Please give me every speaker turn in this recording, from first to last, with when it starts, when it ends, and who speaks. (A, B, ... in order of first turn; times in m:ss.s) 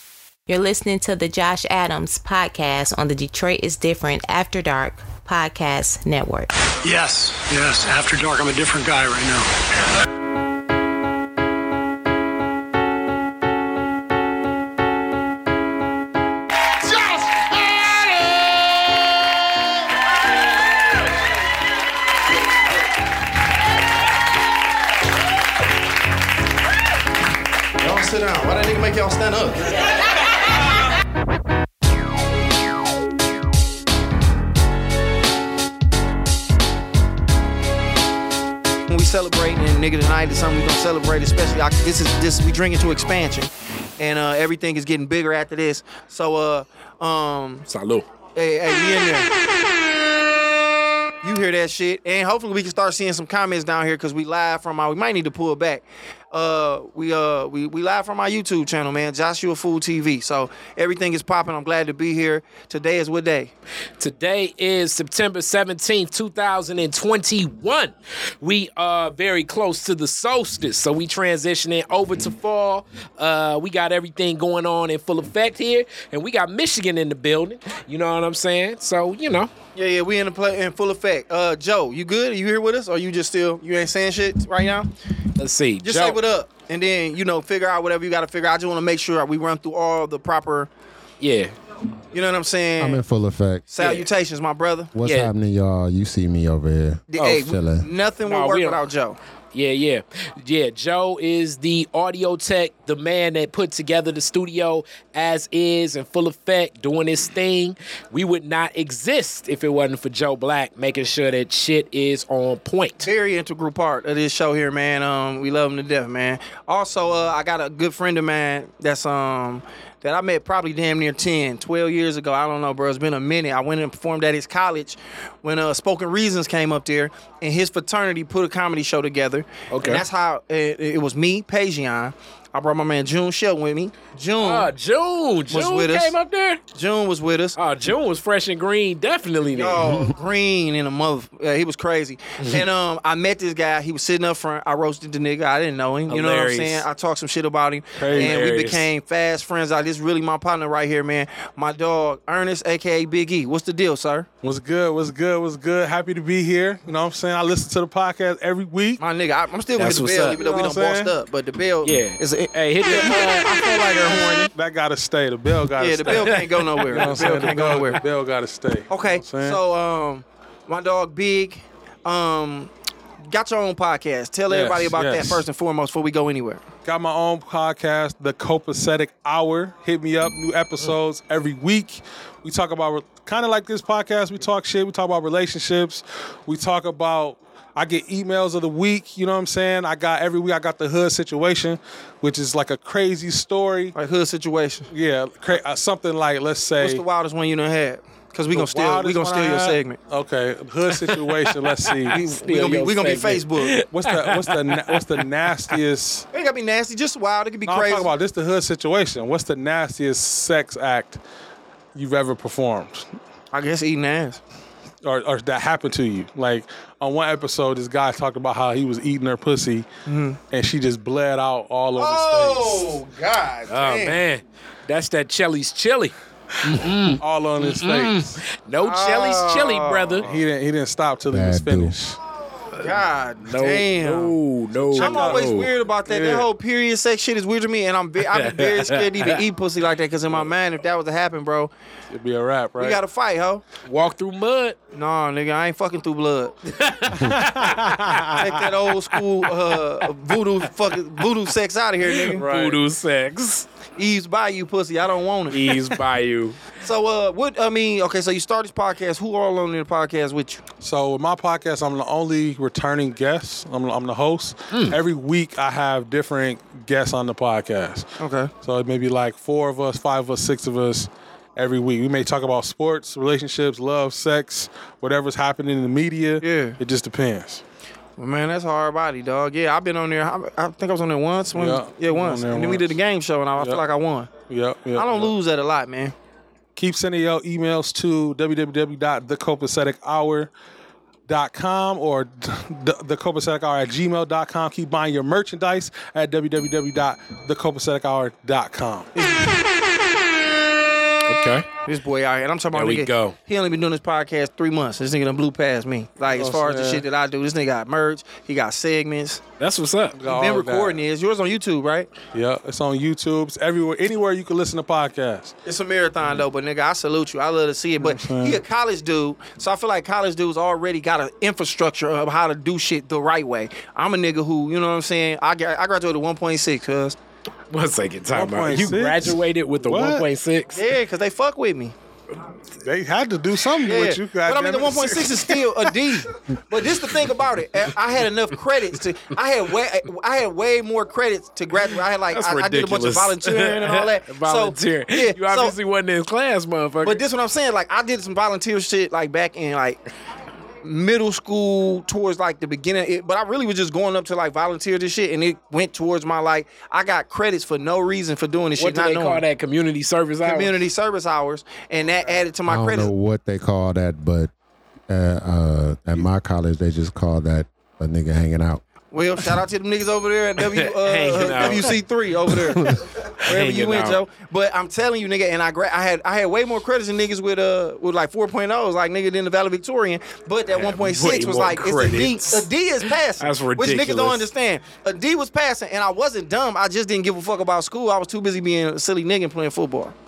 0:00.5-0:06.7 A
0:06.8-0:09.6 B
0:27.8-0:29.8 C
0:38.9-0:47.7 C
0:47.7-0:48.0 D
0:48.4-0:49.3 C
0:51.2-1:03.5 C
1:04.0-1:19.5 D
1:19.8-1:24.9 C
1:25.4-1:26.2 D
1:25.8-1:30.7 C
1:31.2-1:31.5 D
1:32.1-1:33.0 C
1:32.8-1:33.7 E
1:33.7-1:34.9 C
1:35.0-1:37.9 E
1:35.0-1:35.3 D
1:37.1-1:39.2 C
1:38.2-1:38.8 D
1:39.5-1:53.1 D
1:53.0-2:14.7 C
2:09.7-2:10.0 D
2:14.4-2:16.6 D
2:15.5-2:16.2 C
2:16.7-2:17.6 C
2:17.6-2:20.1 D
2:19.5-2:34.3 C
2:22.4-2:22.6 D
2:26.1-2:26.9 D
2:28.0-2:28.3 F
2:28.1-2:28.9 D
2:34.4-2:39.0 F
2:39.0-2:42.5 C
2:39.8-2:40.4 D
2:40.3-2:41.1 F
2:41.8-2:44.5 D
2:42.9-2:49.6 F
2:45.8-2:48.0 C
2:46.1-2:47.4 D
2:48.9-2:52.7 C
2:53.3-2:56.6 C
2:54.5-2:55.4 F
2:56.8-3:14.0 F
3:14.0-3:14.9 C
3:14.9-3:17.0 F
3:16.8-3:20.0 C
3:18.5-3:22.2 F
3:21.0-3:25.2 D
3:22.1-3:23.7 C
3:23.9-3:26.3 F
3:26.3-3:28.1 C
3:27.7-3:31.2 F
3:32.0-3:33.1 F
3:33.5-3:34.4 C
3:35.0-3:39.9 F
3:40.1-3:40.4 C
3:40.5-3:43.0 F
3:42.0-3:44.2 C
3:43.7-3:50.3 D
3:47.2-3:48.4 F
3:48.8-3:50.4 C
3:50.2-3:52.2 F
3:51.3-3:52.0 E
3:52.8-3:54.4 C
3:53.4-3:55.7 D
3:54.9-3:56.5 F
3:55.0-4:01.7 C
3:58.2-3:59.4 D
4:02.1-4:03.0 F
4:02.8-4:03.6 C
4:03.8-4:04.8 D
4:04.9-4:06.7 C
4:06.8-4:10.1 D
4:07.1-4:08.6 F
4:08.4-4:12.4 C
4:12.0-4:13.7 D
4:12.4-4:12.8 F
4:14.0-4:15.8 C
4:15.5-4:16.6 D
4:16.8-4:20.6 C
4:20.8-4:28.1 F
4:24.7-4:25.0 D
4:28.2-4:28.5 C
4:28.6-4:37.6 F
4:36.4-4:36.8 C
4:38.2-4:44.3 C
4:41.5-4:43.0 F
4:44.5-4:45.3 F
4:45.0-4:46.1 C
4:46.8-4:50.5 F
4:51.3-4:59.1 F
4:59.3-4:59.5 C
5:01.3-5:01.7 D
5:01.9-5:09.4 C
5:02.7-5:03.4 D
5:06.3-5:07.0 F
5:09.6-5:10.2 D
5:10.2-5:11.0 F
5:10.2-5:12.1 C
5:12.3-5:15.6 F
5:15.7-5:27.2 C
5:18.0-5:18.6 F
5:27.7-5:30.8 D
5:28.3-5:30.3 F
5:30.7-5:31.9 C
5:32.8-5:36.1 F
5:33.8-5:45.8 C
5:42.3-5:47.2 D
5:47.0-5:50.0 C
5:50.8-5:59.4 C
5:58.8-6:00.8 D
6:00.4-6:03.1 C
6:02.7-6:04.5 E
6:05.1-6:08.8 E
6:09.1-6:30.1 C
6:10.7-6:12.0 D
6:12.5-6:14.2 D
6:20.7-6:24.4 D